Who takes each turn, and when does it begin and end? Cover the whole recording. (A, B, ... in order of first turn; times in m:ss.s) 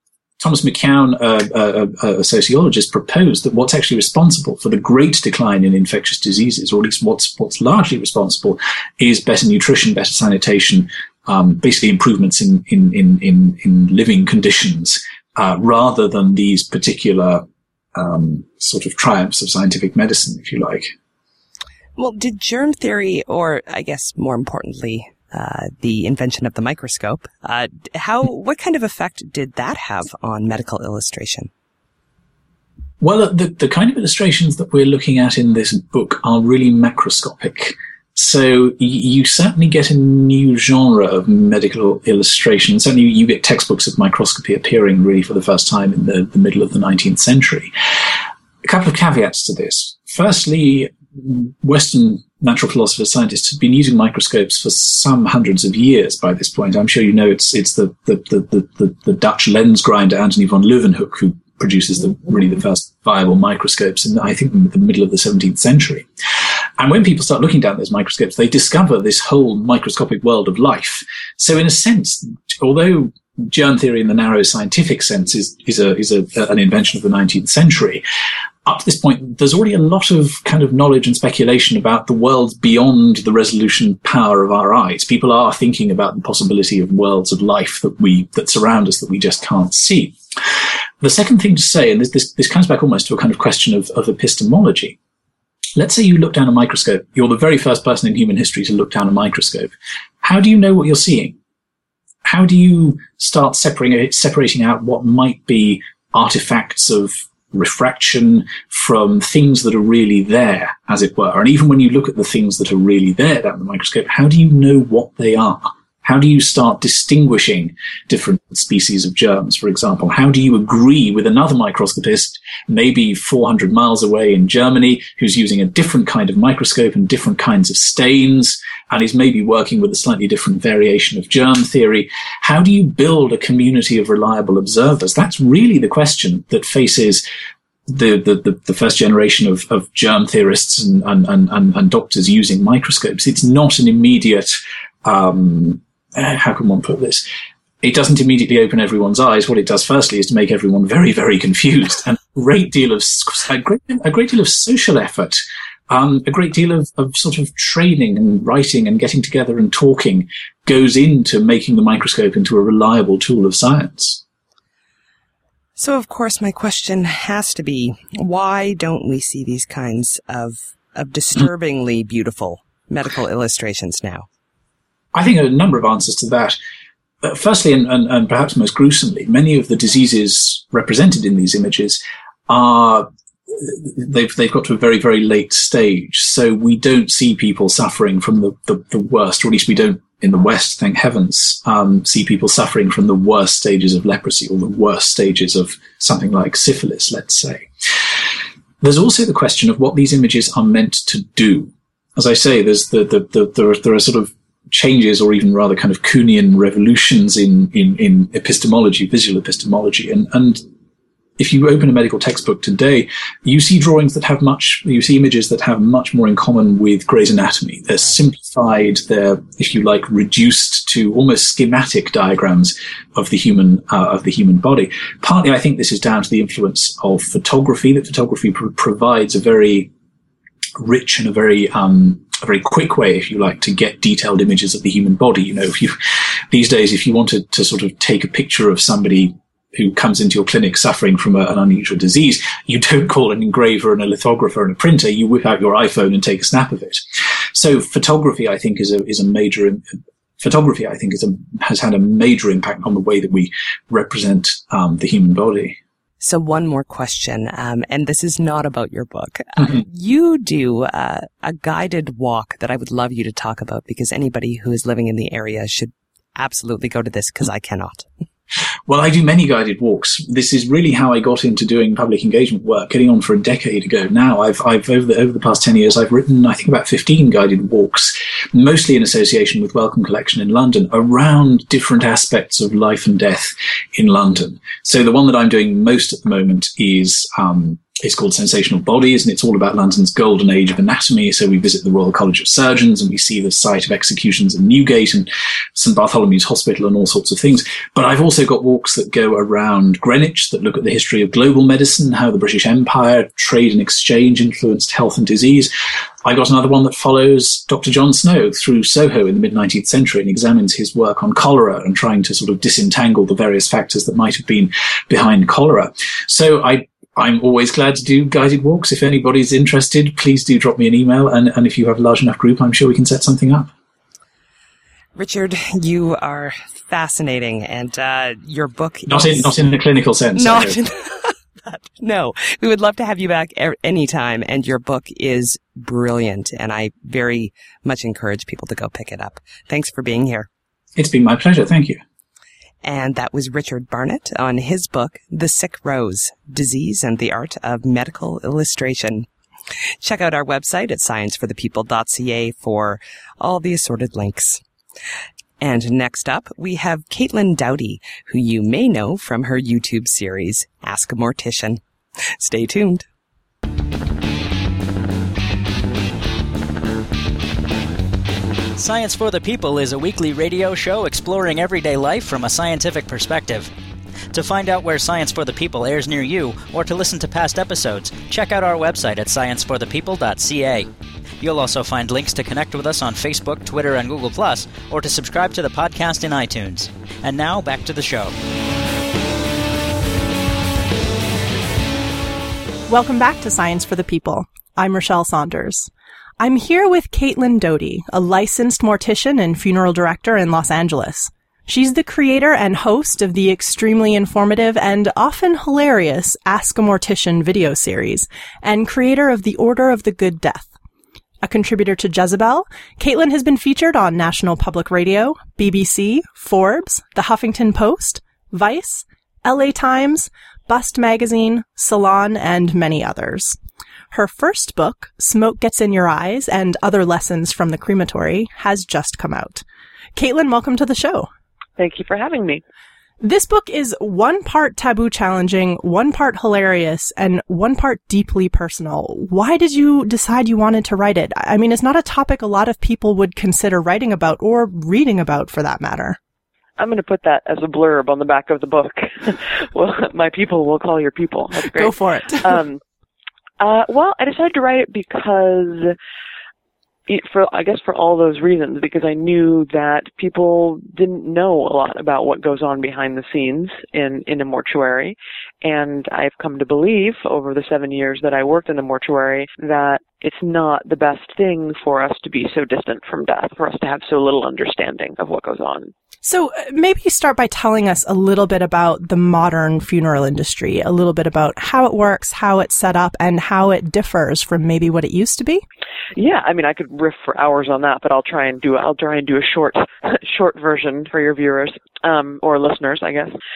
0:00.4-0:20.9 A
0:22.0-0:31.5 B
0:33.0-0:47.7 A
0:48.6-1:18.0 A
1:18.6-1:35.0 A
1:35.8-1:41.3 A
1:42.2-2:17.2 A
2:17.9-2:27.2 A
2:27.8-2:44.2 A
2:45.8-2:54.3 B
2:55.1-2:56.6 A
2:57.2-3:18.1 A
3:18.8-3:30.6 A
3:31.4-3:49.9 A
3:50.8-3:56.0 A
3:56.5-4:07.0 A
4:07.5-4:15.8 A
4:16.2-4:28.1 B
4:28.9-5:05.7 A
5:06.2-5:23.7 A
5:25.1-5:29.7 B
5:29.1-5:30.8 A
5:30.4-5:40.5 B
5:41.0-5:42.0 A
5:42.8-5:49.3 B
5:50.0-5:54.6 B
5:55.6-6:01.8 B
6:02.4-6:03.1 B
6:08.8-6:13.7 C
6:14.3-6:20.9 C
6:21.4-6:28.3 C
6:32.9-6:50.7 D
6:51.4-7:03.6 D
7:04.1-7:09.6 D
7:10.1-7:11.3 D
7:11.8-7:12.6 E
7:13.2-7:26.2 D
7:26.8-7:32.8 E
7:31.7-7:32.6 D
7:33.6-7:36.0 E
7:37.1-7:55.9 E
7:56.2-8:05.6 D
8:06.1-8:13.3 E